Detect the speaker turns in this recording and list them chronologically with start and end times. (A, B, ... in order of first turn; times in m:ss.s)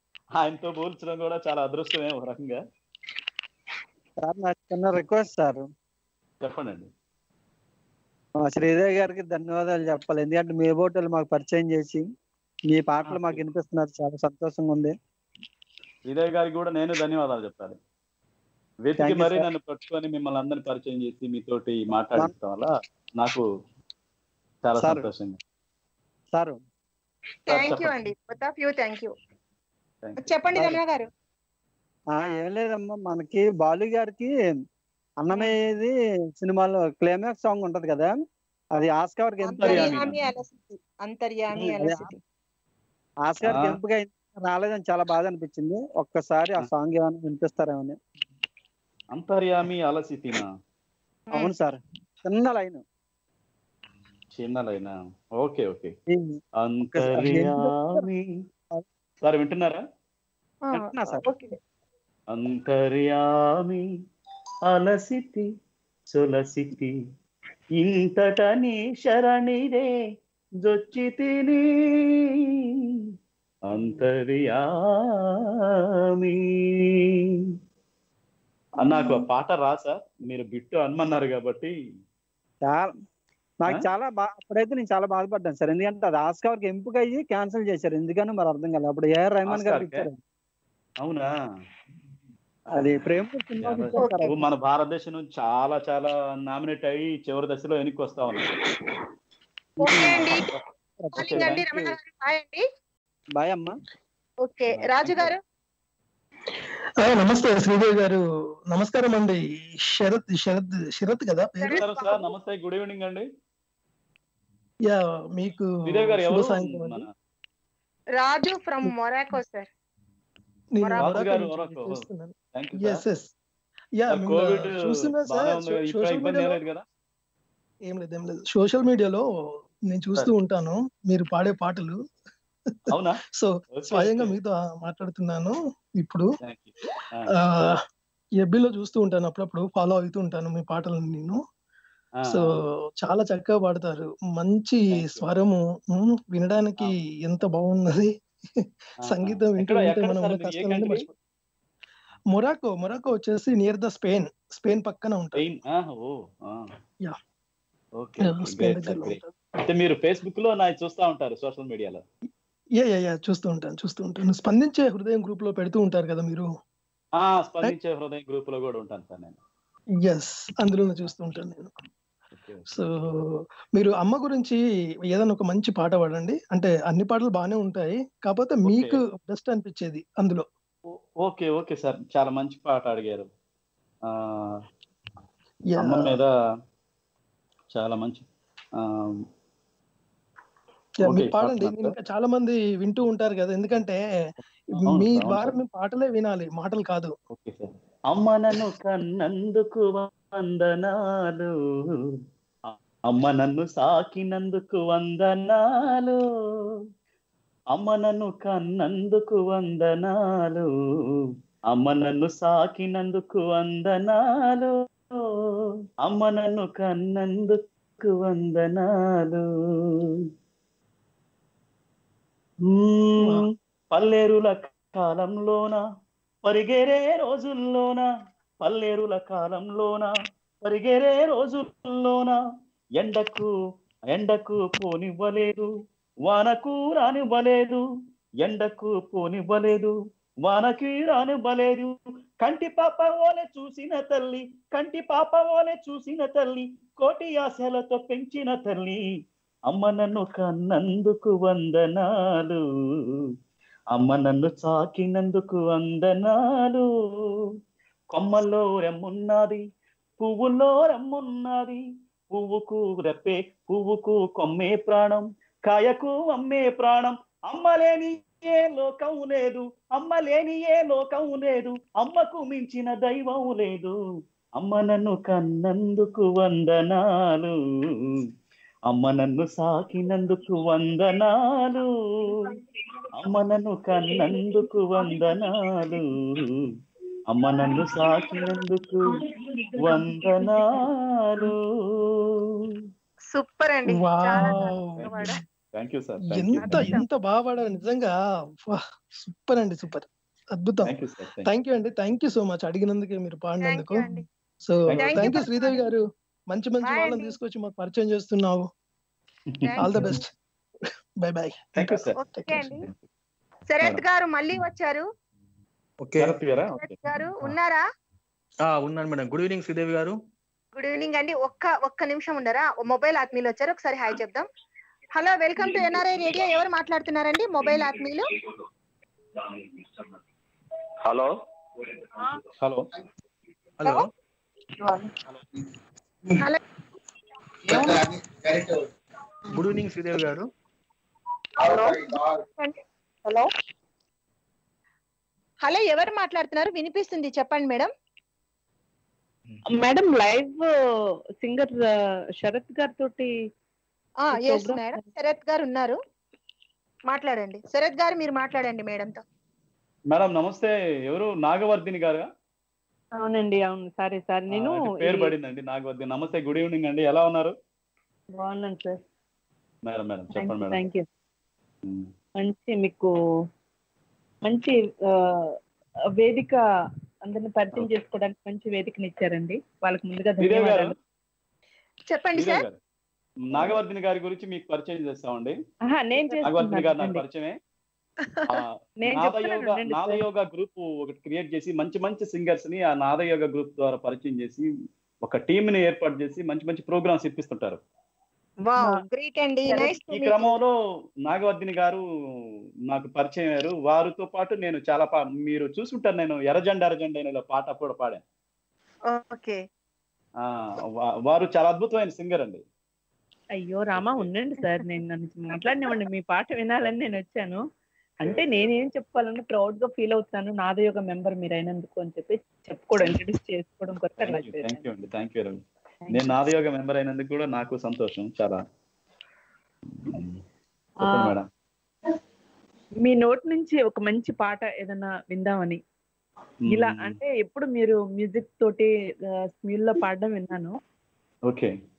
0:00.4-0:02.6 A
0:04.2-0:05.7 B
0:06.4-0:06.9 A
0:08.4-0:12.0 B
0:12.7-0:14.9 B
0:13.0-0:13.4 A
0:16.0-0:17.8 A
0:18.8-0:23.4 A
0:19.0-0:19.5 B
0:24.6-0:25.4 A
0:24.7-0:25.1 B
0:26.3-0:26.6 B
0:27.4-0:29.1 C
0:27.5-0:27.9 A
0:30.0-0:30.7 A
0:30.2-0:31.1 C
0:32.1-0:34.3 B
0:35.2-0:38.1 B
0:35.3-0:35.6 C
0:38.8-0:40.0 B
0:39.5-0:42.1 C
0:39.6-0:40.1 A
0:41.5-0:42.1 B
0:43.2-0:48.0 B
0:43.4-0:43.7 A
0:49.1-0:50.5 A
0:51.3-0:52.8 B
0:54.3-0:55.9 A
0:56.1-0:56.4 B
0:56.6-0:58.2 A
0:56.9-0:58.0 B
0:59.2-0:59.8 A
1:00.7-1:01.5 C
1:00.7-1:01.3 B
1:02.3-1:03.8 A
1:04.7-1:05.5 A
1:06.1-1:06.9 A
1:07.8-1:09.9 A
1:10.6-1:11.6 A
1:13.7-1:14.6 A
1:16.2-1:16.4 A
1:18.8-1:21.7 A
1:18.8-1:19.2 C
1:22.6-1:22.9 B
1:23.6-1:30.2 B
1:29.4-1:30.0 A
1:31.0-1:31.3 A
1:32.7-1:34.4 B
1:33.6-1:38.4 A
1:34.0-1:34.4 C
1:39.8-1:42.0 B
1:39.8-1:40.5 C
1:41.1-1:42.6 C
1:41.2-1:41.7 A
1:43.4-1:43.8 B
1:44.4-1:45.4 C
1:44.7-1:45.3 A
1:47.0-1:51.8 D
1:51.6-1:52.3 C
1:51.7-1:53.3 A
1:54.9-1:57.0 D
1:55.9-1:57.1 A
1:58.2-1:59.7 C
2:00.8-2:03.3 D
2:00.8-2:01.2 C
2:01.0-2:02.0 A
2:02.5-2:03.0 A
2:04.0-2:06.6 D
2:04.1-2:06.8 A
2:07.9-2:09.2 D
2:09.9-2:12.0 D
2:12.9-2:16.3 D
2:12.9-2:13.2 A
2:13.7-2:14.3 A
2:16.4-2:17.3 A
2:17.3-2:17.7 D
2:18.4-2:21.4 D
2:22.3-2:28.1 D
2:25.0-2:25.3 A
2:29.0-2:31.1 D
2:29.0-2:31.1 A
2:32.3-2:35.4 D
2:35.4-2:36.7 A
2:38.0-2:42.0 A
2:38.2-2:39.3 D
2:42.8-2:46.5 D
2:47.2-2:49.4 A
2:50.0-2:51.7 D
2:52.3-2:52.7 A
2:52.7-2:52.9 D
2:53.8-2:54.6 D
2:55.1-3:00.4 D
2:58.6-2:59.0 A
3:00.9-3:03.3 A
3:04.1-3:04.6 A
3:05.8-3:06.2 D
3:05.8-3:06.3 A
3:07.7-3:08.3 A
3:08.8-3:09.2 A
3:11.0-3:14.0 D
3:11.0-3:11.9 A
3:14.7-3:17.1 D
3:14.9-3:15.6 A
3:17.3-3:21.5 A
3:22.7-3:26.2 A
3:27.7-3:30.7 A
3:31.7-3:34.7 A
3:36.0-3:39.4 A
3:42.7-3:45.8 A
3:46.4-3:48.1 A
3:48.6-3:52.4 A
3:53.0-3:53.5 A
3:54.1-3:55.7 A
3:56.3-3:57.8 A
3:58.4-4:09.0 A
4:09.7-4:12.6 A
4:13.9-4:16.8 A
4:18.1-4:19.6 A
4:20.2-4:34.0 A
4:34.6-4:37.5 A
4:38.9-4:42.3 A
4:43.2-4:46.1 A
4:47.3-4:49.2 A
4:49.8-4:51.6 A
4:53.3-4:55.4 C
4:53.9-4:55.4 D
4:55.7-4:56.8 A
4:56.2-4:58.1 D
4:56.6-4:57.0 C
4:58.6-5:04.1 D
5:00.8-5:01.5 A
5:03.6-5:04.2 C
5:04.6-5:08.6 D
5:04.9-5:05.4 A
5:04.9-5:05.8 C
5:06.8-5:07.4 C
5:09.6-5:10.2 C
5:09.8-5:10.3 D
5:11.2-5:12.5 D
5:11.8-5:12.2 A
5:12.2-5:12.8 C
5:13.7-5:15.1 C
5:16.0-5:16.3 E
5:16.2-5:16.9 A
5:16.8-5:17.8 C
5:18.6-5:20.2 E
5:20.8-5:24.5 C
5:25.2-5:28.3 C
5:32.6-5:32.9 A
5:33.8-5:34.1 E
5:39.5-5:40.5 E
5:41.6-5:43.4 C
5:45.6-5:47.9 C
5:49.7-5:50.7 F
5:51.4-5:51.8 F
5:52.4-5:53.3 F
5:54.2-5:56.0 C
5:54.3-5:55.0 F
5:57.1-5:59.2 C
6:00.1-6:02.3 A
6:03.2-6:05.4 F
6:04.5-6:07.5 A
6:08.3-6:09.0 F
6:09.8-6:10.8 A
6:10.3-6:11.0 F
6:12.4-6:13.1 F
6:14.4-6:15.5 F
6:16.2-6:16.6 F
6:17.2-6:21.0 F
6:20.4-6:21.0 A
6:22.1-6:22.6 C
6:22.3-6:22.8 A
6:23.5-6:25.6 A
6:25.9-6:27.2 F
6:26.4-6:27.6 A
6:28.5-6:34.6 A
6:29.0-6:30.2 F
6:35.2-6:37.8 A
6:38.7-6:40.6 C
6:39.7-6:40.7 A
6:41.2-6:42.0 A
6:42.9-6:48.2 A
6:49.1-6:49.6 C
6:50.4-6:52.6 A
6:53.6-6:57.6 F
6:53.9-6:54.3 A
6:58.2-7:04.8 F
6:58.2-6:58.6 A
7:04.2-7:08.6 A
7:06.0-7:06.5 F
7:10.0-7:10.4 A
7:11.0-7:11.3 F
7:11.0-7:11.5 A
7:13.0-7:15.8 F
7:16.6-7:17.2 A
7:16.7-7:18.9 F
7:19.5-7:20.8 F
7:21.5-7:21.7 A